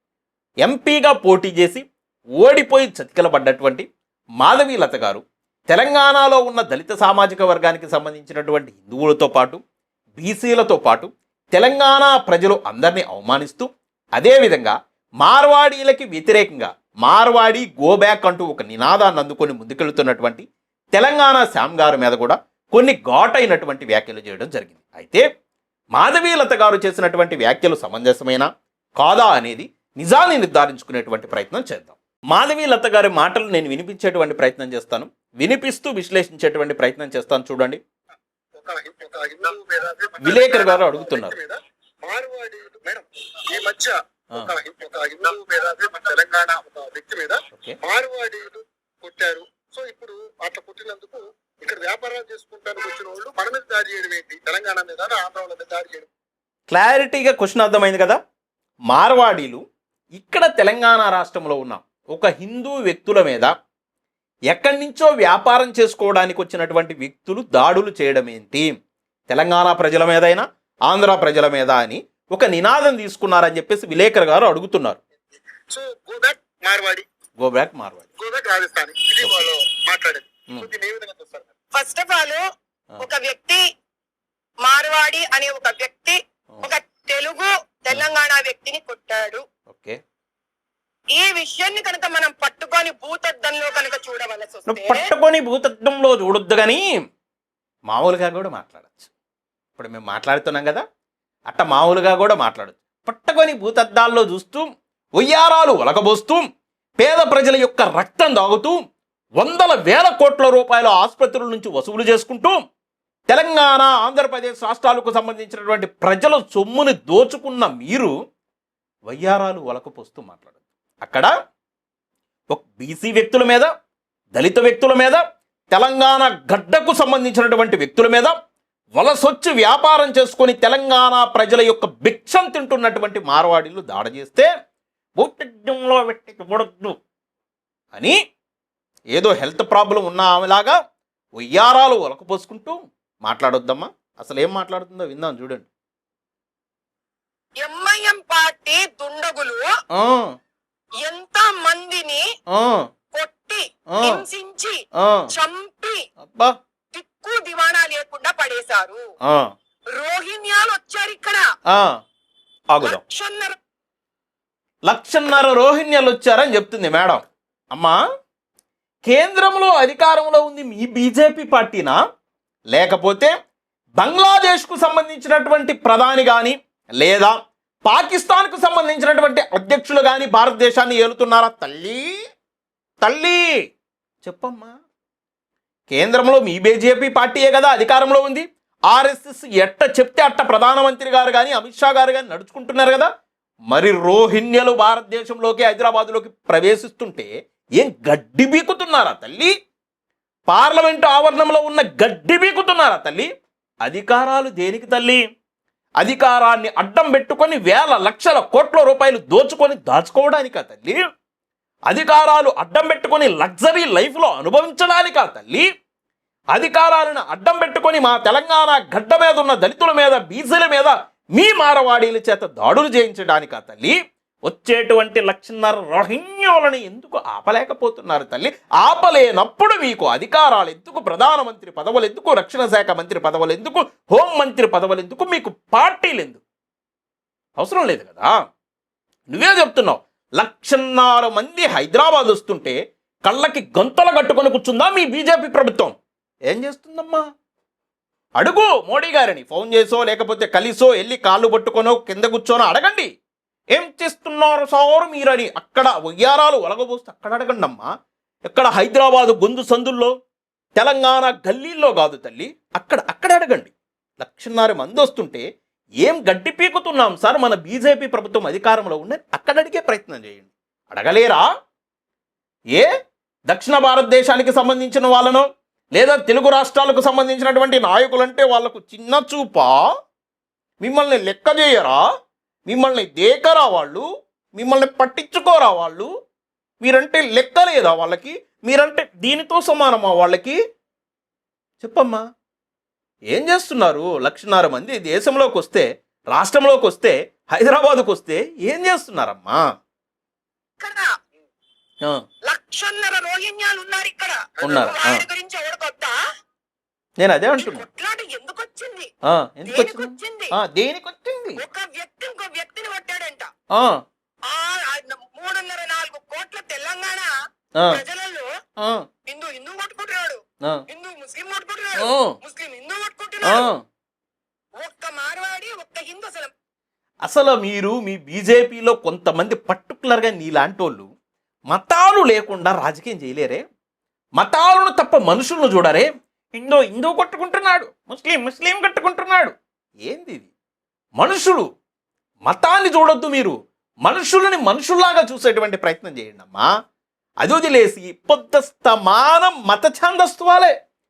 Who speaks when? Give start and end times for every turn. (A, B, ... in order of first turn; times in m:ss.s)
0:00.6-0:01.8 A
0:02.4-0:03.9 A
0:04.4-0:09.6 A
0:10.2-0:25.2 A
0:25.9-0:37.8 A
0:38.5-0:56.1 B
0:40.2-0:41.4 A
0:47.5-0:47.8 A
0:56.7-0:58.2 A
0:58.9-0:59.6 A
1:00.1-1:03.5 A
1:04.5-1:08.7 A
1:09.3-1:15.0 A
1:15.7-1:17.0 B
1:17.4-1:18.1 A
1:18.2-1:21.5 B
1:21.7-1:22.4 C
1:23.0-1:23.6 C
1:24.6-1:29.4 C
1:29.7-1:30.0 A
1:31.2-1:35.1 C
1:34.7-1:36.9 A
1:37.9-1:39.1 A
1:39.8-1:40.8 A
1:41.5-1:46.4 A
1:47.0-1:48.8 A
1:49.4-1:52.6 A
1:53.3-1:58.1 A
1:59.1-2:01.3 A
2:02.5-2:03.7 A
2:04.3-2:08.4 A
2:09.0-2:14.5 A
2:15.2-2:17.0 A
2:19.1-2:20.8 A
2:21.4-2:25.7 A
2:27.6-2:29.6 C
2:29.9-2:30.3 A
2:31.0-2:32.2 C
2:32.5-2:32.8 A
2:33.1-2:34.8 C
2:33.9-2:34.2 A
2:35.0-2:35.3 A
2:35.3-2:36.0 C
2:36.2-2:36.5 A
2:36.9-2:39.0 C
2:39.2-2:39.5 A
2:39.9-2:41.4 C
2:42.7-2:43.0 A
2:42.8-2:43.6 C
2:44.9-2:48.0 A
2:49.0-2:52.0 A
2:52.7-2:53.3 A
2:54.0-3:02.1 A
3:03.0-3:03.5 A
3:04.2-3:04.7 A
3:05.9-3:13.1 A
3:13.7-3:19.5 A
3:20.5-3:23.3 A
3:23.8-3:25.2 A
3:26.0-3:31.0 A
3:31.9-3:35.7 A
3:36.5-3:56.4 A
3:57.6-3:58.3 A
3:59.3-4:05.9 A
4:06.5-4:07.2 A
4:08.4-4:13.1 A
4:13.7-4:17.9 A
4:18.5-4:20.1 A
4:20.8-4:25.4 A
4:26.0-4:31.4 A
4:33.5-4:39.8 A
4:40.8-4:42.0 A
4:42.7-4:44.0 A
4:44.6-4:46.1 A
4:46.8-4:50.6 A
4:51.8-4:52.2 A
4:53.3-4:59.6 A
5:00.8-5:01.1 C
5:02.5-5:06.1 C
5:04.6-5:05.2 A
5:07.2-5:07.8 A
5:07.6-5:09.1 C
5:09.2-5:11.6 A
5:09.6-5:10.5 C
5:11.6-5:13.5 C
5:14.5-5:17.3 C
5:17.9-5:18.5 C
5:18.8-5:19.0 A
5:19.3-5:23.7 C
5:22.0-5:22.4 A
5:23.4-5:23.8 A
5:24.8-5:26.5 C
5:27.2-5:31.1 A
5:31.7-5:33.6 A
5:34.4-5:40.5 A
5:41.2-5:41.7 A
5:42.5-5:46.7 A
5:47.4-5:50.7 A